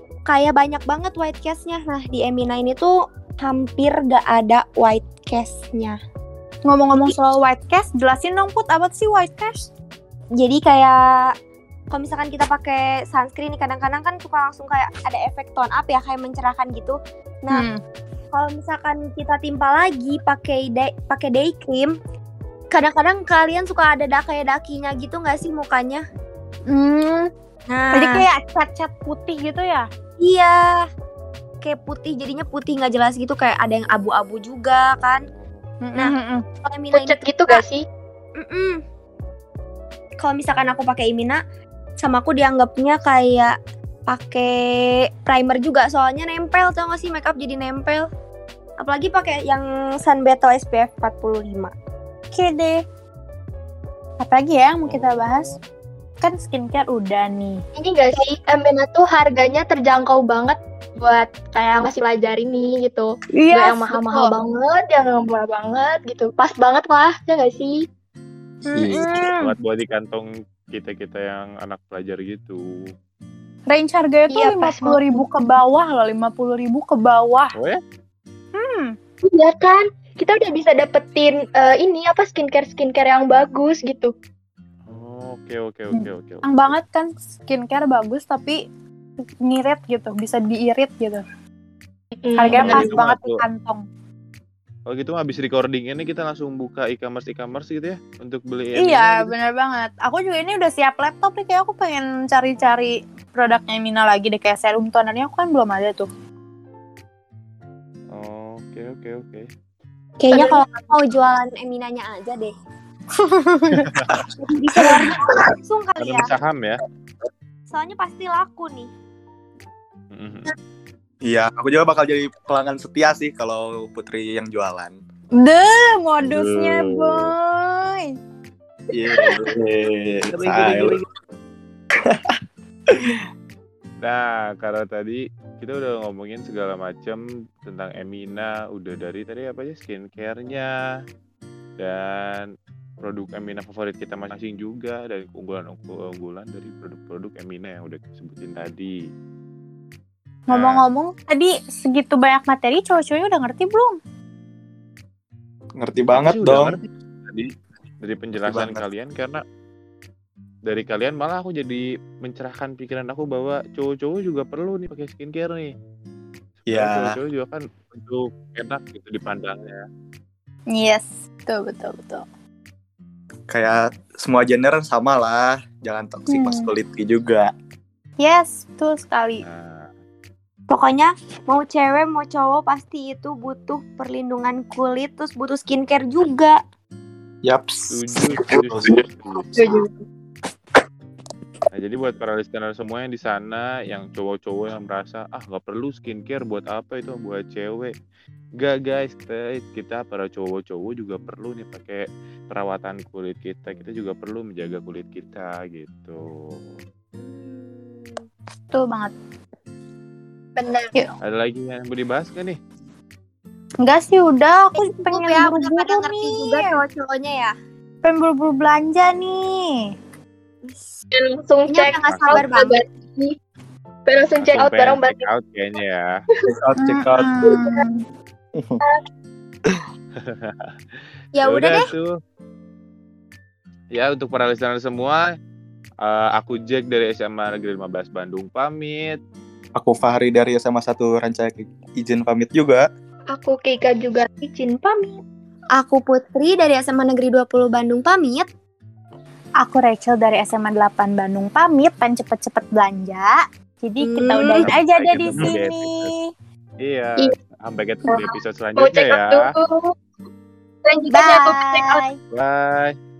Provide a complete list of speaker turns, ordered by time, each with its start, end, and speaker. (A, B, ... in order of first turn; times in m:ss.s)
0:00.3-0:06.0 A
0:06.6-0:09.7 B
0:10.4-0:11.0 A
0:11.9-0:17.7 A
0:17.5-0:17.8 B
0:18.3-0:21.9 A
0:22.7-0:26.0 A
0:26.7-0:27.3 B
0:27.7-0:28.2 A
0:27.9-0:29.9 B
0:30.2-0:30.9 A
0:31.6-0:35.2 A
0:35.2-0:35.6 C
0:35.8-0:36.4 B
0:36.6-0:37.6 A
0:36.9-0:37.8 D
0:38.4-0:38.8 A
0:40.2-0:41.4 A
0:42.0-0:43.6 A
0:44.1-0:44.5 A
0:45.2-0:48.1 A
0:48.8-0:51.7 A
0:52.3-0:52.8 B
0:54.2-0:55.5 B
0:54.8-0:55.6 C
0:56.2-0:57.6 B
0:57.8-1:07.8 D
1:03.4-1:04.3 B
1:08.6-1:09.5 B
1:08.7-1:09.1 E
1:09.4-1:12.9 C
1:13.7-1:17.5 B
1:14.3-1:15.5 D
1:18.5-1:19.0 B
1:19.2-1:24.1 D
1:24.9-1:26.8 C
1:25.9-1:28.6 B
1:29.4-1:31.2 B
1:32.2-1:33.0 D
1:32.3-1:33.8 B
1:32.5-1:33.4 C
1:34.9-1:39.3 C
1:38.8-1:46.1 B
1:48.1-1:49.5 C
1:50.2-1:52.5 A
1:50.3-1:50.6 D
1:53.2-1:53.9 B
1:53.8-1:54.1 C
1:54.4-1:56.3 A
1:56.0-1:56.3 B
1:56.0-1:56.8 C
1:57.7-1:58.9 A
2:00.1-2:00.5 C
2:01.2-2:05.0 E
2:05.4-2:08.1 B
2:06.2-2:07.1 C
2:08.9-2:11.0 E
2:10.3-2:11.1 C
2:12.0-2:13.2 E
2:14.0-2:20.7 C
2:21.8-2:22.5 C
2:23.0-2:28.9 C
2:30.5-2:34.0 B
2:30.5-2:30.8 C
2:35.8-2:36.8 E
2:36.1-2:37.5 C
2:38.0-2:39.4 C
2:38.4-2:38.8 E
2:40.6-2:45.7 C
2:46.6-2:49.8 C
2:46.7-2:47.2 E
2:50.7-2:52.2 B
2:53.5-2:57.5 E
2:56.3-2:56.7 B
2:58.2-2:59.4 B
2:59.4-2:59.9 C
3:00.7-3:06.6 A
3:07.4-3:09.0 E
3:07.9-3:09.5 C
3:09.5-3:09.9 D
3:11.7-3:17.9 C
3:18.6-3:26.6 C
3:27.2-3:28.2 A
3:28.7-3:29.1 B
3:30.6-3:30.9 D
3:31.2-3:32.6 C
3:33.8-3:36.6 B
3:34.8-3:37.5 A
3:38.0-3:39.9 B
3:40.6-3:41.0 A
3:41.1-3:43.3 D
3:41.7-3:42.8 A
3:42.1-3:42.4 C
3:44.0-3:45.3 D
3:44.4-3:46.1 C
3:46.6-3:47.3 E
3:46.8-3:48.0 B
3:47.4-3:47.8 D
3:50.2-3:50.7 C
3:51.3-3:51.8 A
3:51.4-3:52.1 C
3:53.9-3:55.2 C
3:56.0-3:59.2 C
3:59.8-4:02.8 E
4:03.3-4:05.2 D
4:05.8-4:08.5 A
4:09.6-4:16.3 B
4:14.0-4:14.7 A
4:14.6-4:16.1 C
4:16.8-4:19.4 C
4:18.1-4:19.9 D
4:20.8-4:22.0 D
4:21.1-4:22.2 B
4:22.3-4:22.9 C